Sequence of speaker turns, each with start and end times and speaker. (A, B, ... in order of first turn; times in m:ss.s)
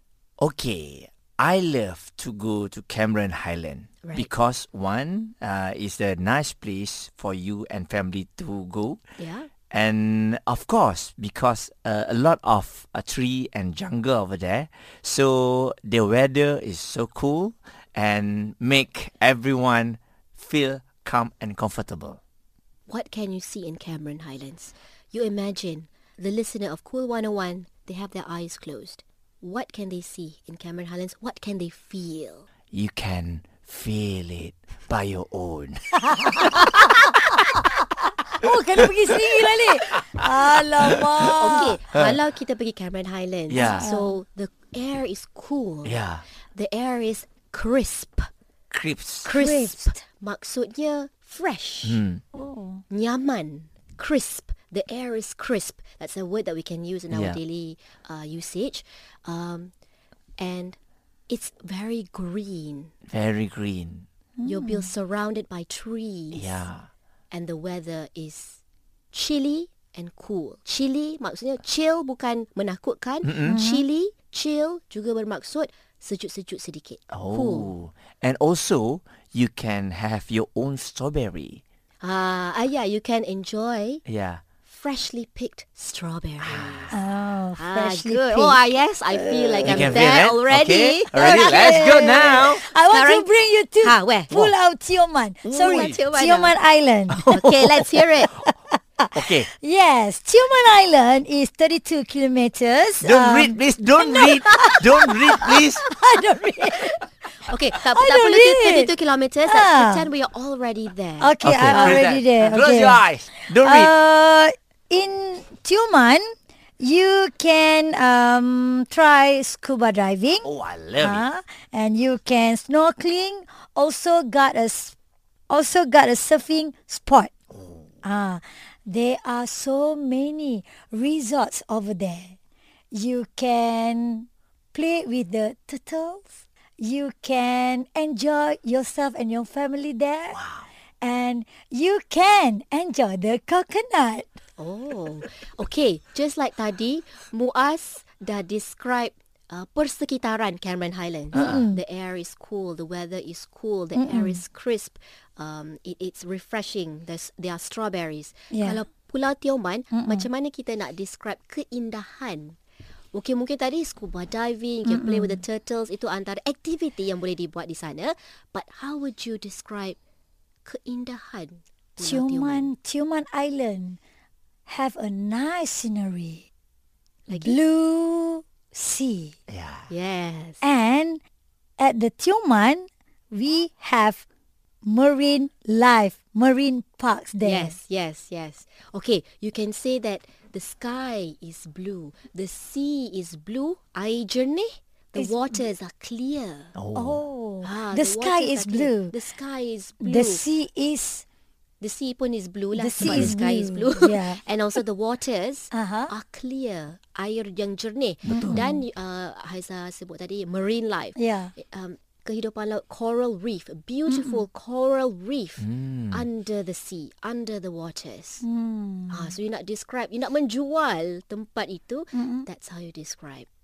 0:00.4-0:09.0 A
0:04.0-0:04.3 B
0:09.2-0:09.5 B
0:09.7-0:22.2 A
0:22.9-0:32.5 B
0:32.7-0:36.6 A
0:38.4-0:41.8 C
0:41.4-0:46.0 B
0:41.5-0:42.2 A
0:43.5-0:43.9 A
0:43.6-0:44.1 C
0:45.8-0:46.2 A
0:46.6-0:48.3 B
0:48.7-0:49.3 A
0:49.2-0:52.0 B
0:49.3-0:50.0 C
0:51.8-0:52.2 A
0:52.3-0:52.8 C
0:52.9-0:59.7 B
0:57.1-0:57.4 A
1:00.4-1:00.8 B
1:01.3-1:02.9 B
1:03.1-1:04.1 A
1:04.4-1:04.9 C
1:04.4-1:06.7 B
1:06.3-1:06.9 A
1:07.3-1:08.6 B
1:09.1-1:17.7 B
1:13.2-1:13.6 A
1:13.5-1:13.8 C
1:17.1-1:21.6 A
1:22.0-1:24.0 B
1:24.1-1:24.4 A
1:24.6-1:27.0 B
1:26.4-1:26.9 A
1:26.9-1:29.8 C
1:27.6-1:34.3 B
1:29.6-1:32.6 A
1:31.2-1:37.2 C
1:35.5-1:36.6 B
1:35.5-1:36.0 A
1:37.1-1:37.7 A
1:37.3-1:38.3 B
1:39.0-1:47.0 C
1:39.2-1:39.5 A
1:43.0-1:45.8 A
1:47.5-1:52.0 B
1:47.9-1:48.9 C
1:49.5-1:50.1 C
1:51.2-1:53.0 C
1:51.4-1:53.9 A
1:53.6-2:00.5 C
2:00.4-2:01.3 A
2:01.0-2:05.0 C
2:05.5-2:07.3 C
2:07.5-2:07.9 A
2:08.0-2:12.4 C
2:12.9-2:20.4 C
2:20.3-2:20.7 A
2:21.0-2:24.3 C
2:24.6-2:42.6 B
2:31.3-2:31.6 A
2:31.3-2:31.8 C
2:34.0-2:34.4 C
2:38.5-2:38.8 C
2:39.9-2:40.3 C
2:43.1-2:50.0 B
2:44.9-2:45.4 C
2:50.6-2:52.7 B
2:52.0-2:54.0 C
2:54.7-2:56.4 C
2:57.3-2:57.6 B
2:57.3-2:59.4 C
2:59.5-2:59.9 A
2:59.9-3:00.6 B
3:00.6-3:01.2 C
3:01.8-3:04.2 C
3:04.8-3:07.8 C
3:07.4-3:16.8 B
3:15.2-3:15.7 C
3:16.8-3:17.2 A
3:17.0-3:19.2 C
3:17.6-3:20.4 B
3:20.0-3:21.2 C
3:21.8-3:38.4 B
3:22.8-3:24.4 C
3:25.7-3:26.1 C
3:28.3-3:28.8 C
3:28.3-3:28.6 A
3:31.2-3:31.5 C
3:34.1-3:34.4 C
3:35.6-3:36.2 A
3:38.4-3:39.3 C
3:39.1-3:43.5 B
3:42.1-3:42.5 C